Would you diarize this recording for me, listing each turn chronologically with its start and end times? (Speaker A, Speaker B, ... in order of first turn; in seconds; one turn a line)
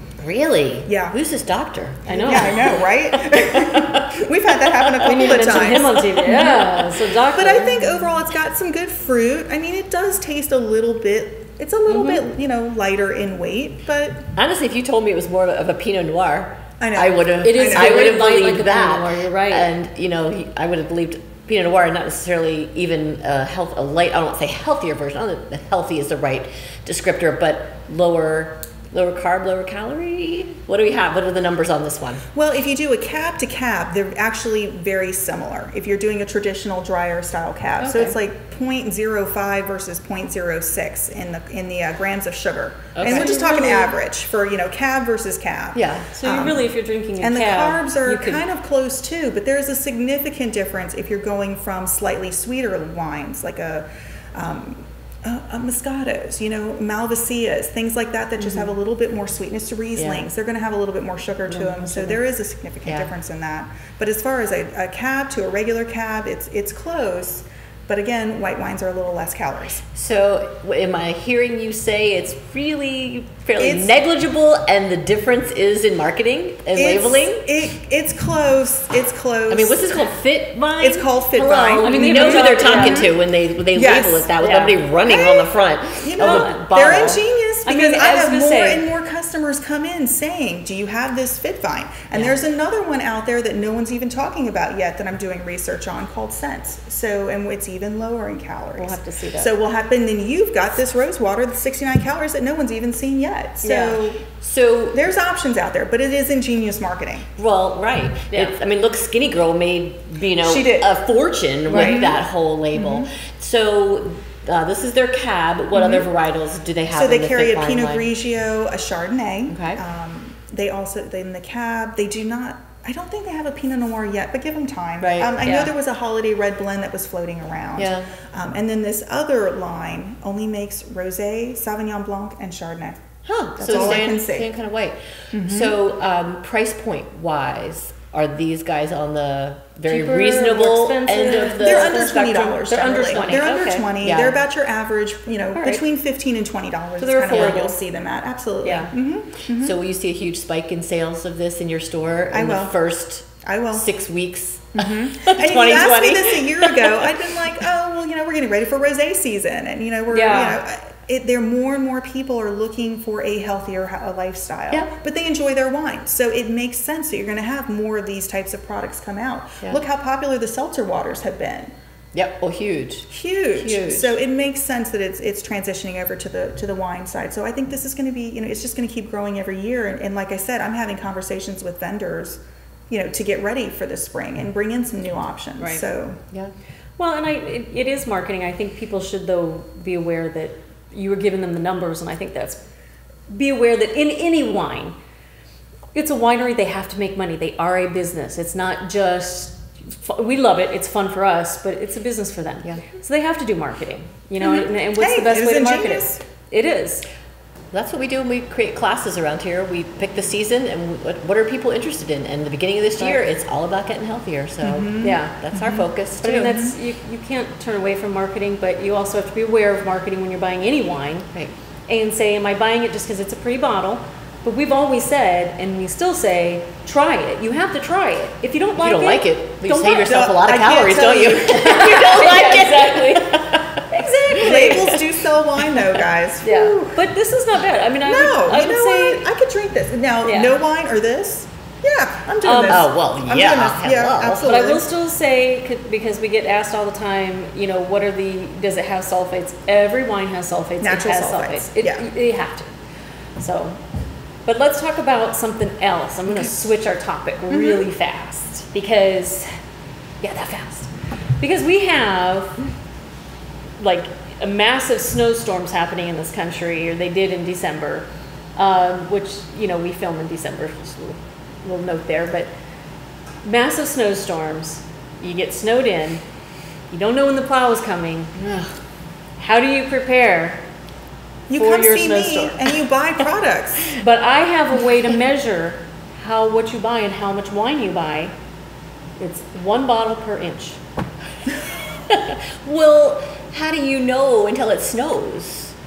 Speaker A: 0.2-2.8
Speaker B: 0.9-1.2
Speaker C: 2.1-2.7
Speaker B: 2.1-14.2
Speaker A: 3.6-4.0
Speaker C: 5.1-8.1
Speaker C: 11.9-12.2
Speaker A: 14.4-32.2
Speaker B: 16.8-18.0
Speaker C: 17.4-19.7
Speaker B: 32.3-69.8
Speaker C: 37.8-38.1
Speaker A: 43.0-43.5
Speaker C: 43.0-43.9
Speaker A: 45.8-46.1
Speaker C: 46.1-48.5
Speaker A: 58.4-58.7
Speaker A: 60.0-60.3
Speaker A: 61.5-62.2
Speaker A: 62.9-63.1
Speaker A: 69.9-77.5
Speaker B: 73.6-74.0
Speaker B: 76.7-80.1
Speaker A: 79.5-87.2
Speaker B: 80.8-84.3
Speaker C: 81.8-83.1
Speaker C: 84.4-84.8
Speaker B: 85.0-104.2
Speaker C: 86.2-86.7
Speaker C: 87.6-88.9
Speaker A: 92.1-92.4
Speaker C: 98.8-99.5
Speaker C: 103.6-104.0
Speaker A: 104.4-105.0
Speaker B: 104.9-107.3
Speaker A: 107.4-118.1
Speaker C: 108.3-108.6
Speaker B: 110.4-110.9
Speaker C: 111.7-112.1
Speaker B: 111.7-112.2
Speaker B: 112.7-113.1
Speaker B: 115.7-116.1
Speaker B: 116.9-133.0
Speaker A: 119.5-119.8
Speaker A: 125.0-125.3
Speaker C: 125.4-125.7
Speaker A: 127.8-128.1
Speaker A: 133.2-143.5
Speaker B: 133.6-134.5
Speaker C: 133.7-134.0
Speaker B: 135.3-135.8
Speaker C: 139.8-143.9
Speaker B: 141.5-149.8
Speaker A: 144.0-144.4
Speaker C: 145.5-145.8
Speaker C: 147.0-147.8
Speaker A: 147.3-147.6
Speaker C: 148.6-148.9
Speaker A: 148.6-148.9
Speaker A: 149.5-157.2
Speaker B: 152.3-152.8
Speaker B: 153.4-153.9
Speaker B: 154.8-171.7
Speaker C: 160.1-160.6
Speaker A: 172.1-174.2
Speaker B: 173.1-186.2
Speaker C: 185.6-185.8
Speaker C: 187.0-192.6
Speaker C: 193.3-194.9
Speaker C: 195.9-207.1
Speaker B: 204.4-206.2
Speaker A: 207.7-216.5
Speaker B: 214.6-215.9
Speaker C: 215.0-215.4
Speaker C: 216.2-221.3
Speaker B: 216.4-216.8
Speaker C: 221.9-230.3
Speaker A: 228.8-233.8
Speaker B: 230.1-231.9
Speaker C: 231.6-234.9
Speaker B: 234.0-237.0
Speaker A: 234.4-235.1
Speaker C: 236.4-239.3
Speaker B: 238.0-244.8
Speaker C: 240.2-240.6
Speaker C: 242.4-242.9
Speaker A: 242.7-244.5
Speaker C: 244.4-252.7
Speaker B: 250.8-252.1
Speaker C: 253.4-253.8
Speaker C: 254.5-259.5
Speaker B: 257.5-257.9
Speaker C: 260.2-262.6
Speaker C: 263.8-272.5
Speaker C: 273.4-276.2
Speaker C: 276.9-278.3
Speaker A: 278.4-278.7
Speaker C: 279.4-280.6
Speaker B: 281.5-283.9
Speaker C: 281.6-282.6
Speaker C: 284.0-288.3
Speaker C: 289.2-290.8
Speaker A: 292.1-295.7